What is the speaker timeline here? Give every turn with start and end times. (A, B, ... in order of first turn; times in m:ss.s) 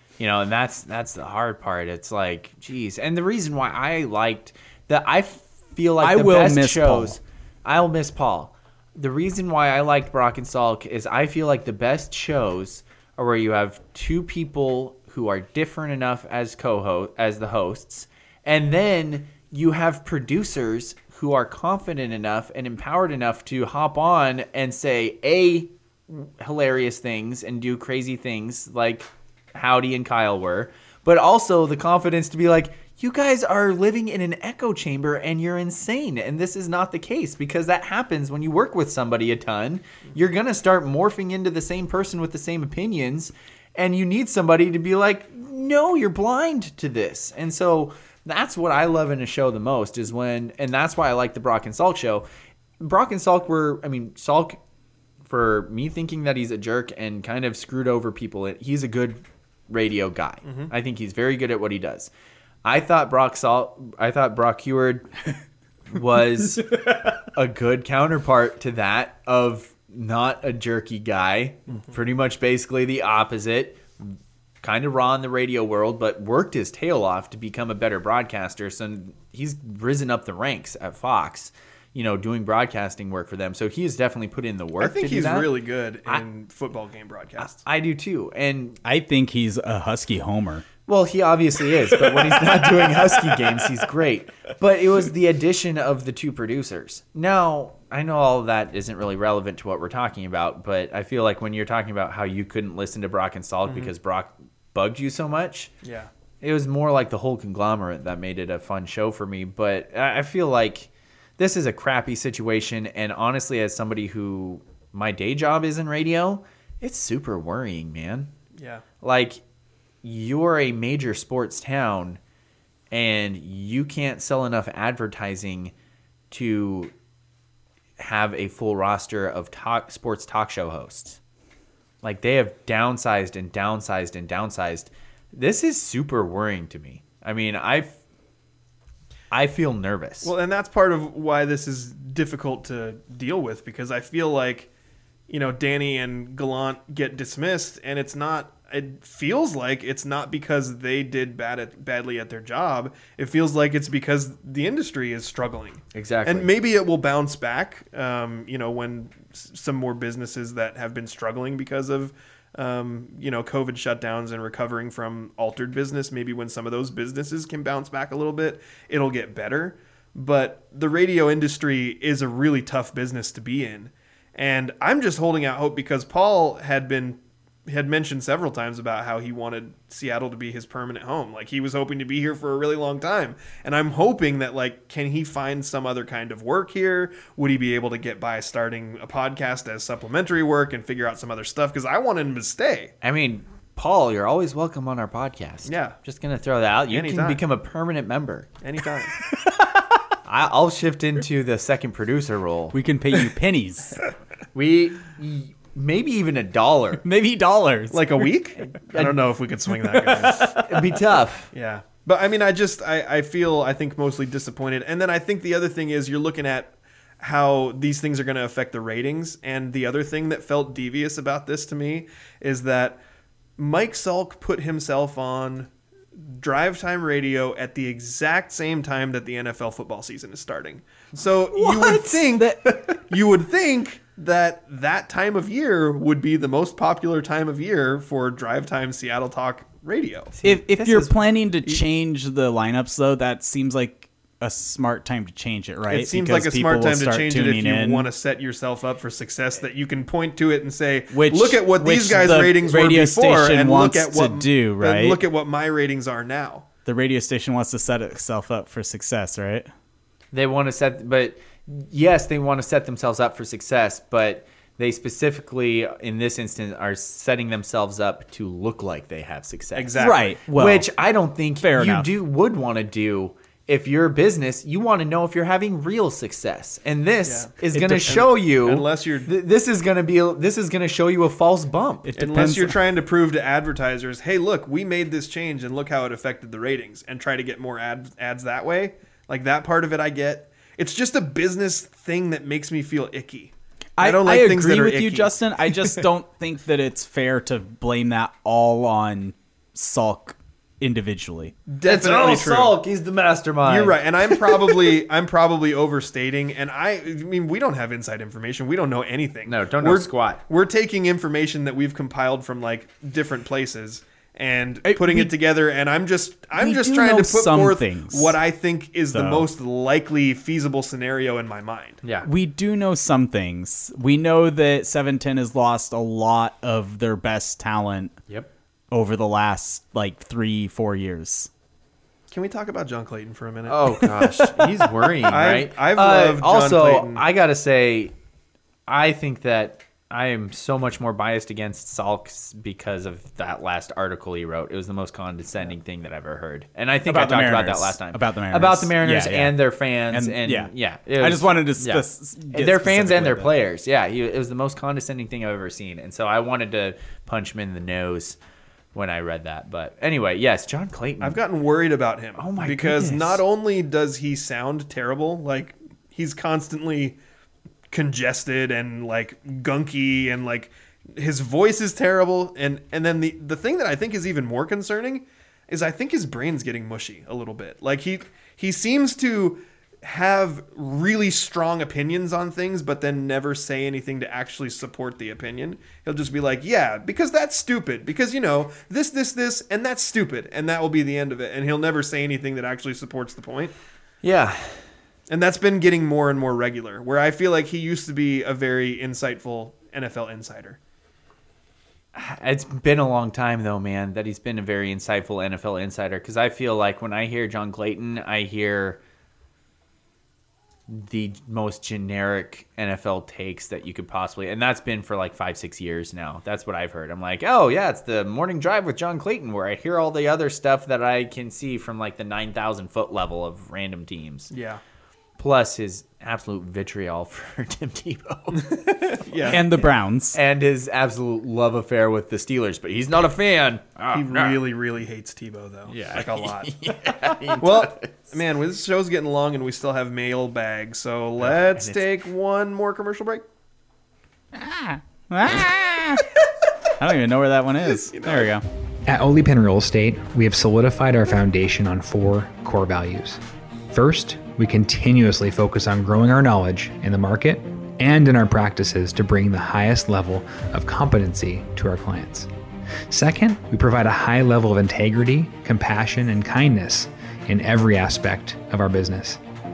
0:00.2-0:52.2 A
0:06.0-0:07.2 B
0:52.8-0:54.6 A
0:55.2-1:02.1 A
1:00.4-1:00.7 C
1:02.6-1:05.1 A
1:05.9-1:25.5 A
1:24.8-1:27.6 C
1:27.4-1:28.8 A
1:28.8-1:30.7 B
1:30.9-1:45.7 A
1:43.7-1:43.9 C
1:45.8-1:46.1 C
1:46.4-1:58.3 A
1:58.6-1:58.8 C
1:59.0-1:59.4 A
2:00.0-2:02.2 A
2:02.9-2:05.7 A
2:06.3-2:06.9 A
2:08.0-2:11.2 A
2:12.0-2:18.0 A
2:19.3-2:20.3 A
2:20.2-2:24.7 C
2:25.3-3:12.9 C
2:35.9-2:36.5 A
3:13.0-3:18.5 A
3:15.6-3:16.0 C
3:16.9-3:17.4 C
3:18.6-3:19.1 C
3:20.2-3:22.8 A
3:22.7-3:24.0 B
3:24.5-3:27.0 A
3:27.0-3:28.2 B
3:27.9-3:30.6 C
3:29.9-3:30.8 B
3:30.6-3:31.5 A
3:31.5-3:43.0 C
3:43.6-4:00.3 C
3:51.5-3:53.0 A
4:00.3-4:01.2 A
4:00.4-4:08.1 B
4:05.9-4:16.7 C
4:11.1-4:15.2 B
4:16.9-4:19.7 B
4:20.3-4:42.1 A
4:29.7-4:30.4 C
4:30.0-4:31.0 B
4:31.6-4:32.1 B
4:37.2-4:39.3 C
4:37.7-4:38.2 B
4:42.0-4:42.8 B
4:42.2-4:55.4 C
4:54.0-5:01.6 B
5:01.7-5:02.8 C
5:01.8-5:04.9 A
5:03.7-5:22.0 C
5:09.5-5:10.4 A
5:14.8-5:15.4 B
5:16.6-5:18.4 B
5:19.1-5:19.5 B
5:22.0-5:22.3 A
5:22.2-5:28.2 B
5:28.9-5:31.5 B
5:32.3-5:34.2 C
5:33.7-5:38.1 A
5:35.3-5:37.2 C
5:38.9-5:58.4 A
5:47.1-5:53.6 B
5:58.9-6:01.4 A
6:01.2-6:07.2 C
6:02.4-6:03.4 A
6:07.9-6:33.8 C
6:34.2-6:34.8 A
6:35.3-6:40.8 C
6:42.1-6:49.0 A
6:50.9-7:04.5 A
7:04.5-7:04.8 C
7:05.4-7:14.6 A
7:08.6-7:09.7 C
7:09.5-7:10.4 B
7:14.1-7:16.7 C
7:15.9-7:18.1 A
7:17.5-7:23.5 C
7:21.4-7:22.1 A
7:24.6-7:26.4 B
7:26.9-7:28.6 B
7:28.1-7:28.5 C
7:29.1-7:33.4 D
7:33.9-7:42.5 D
7:43.1-7:49.4 D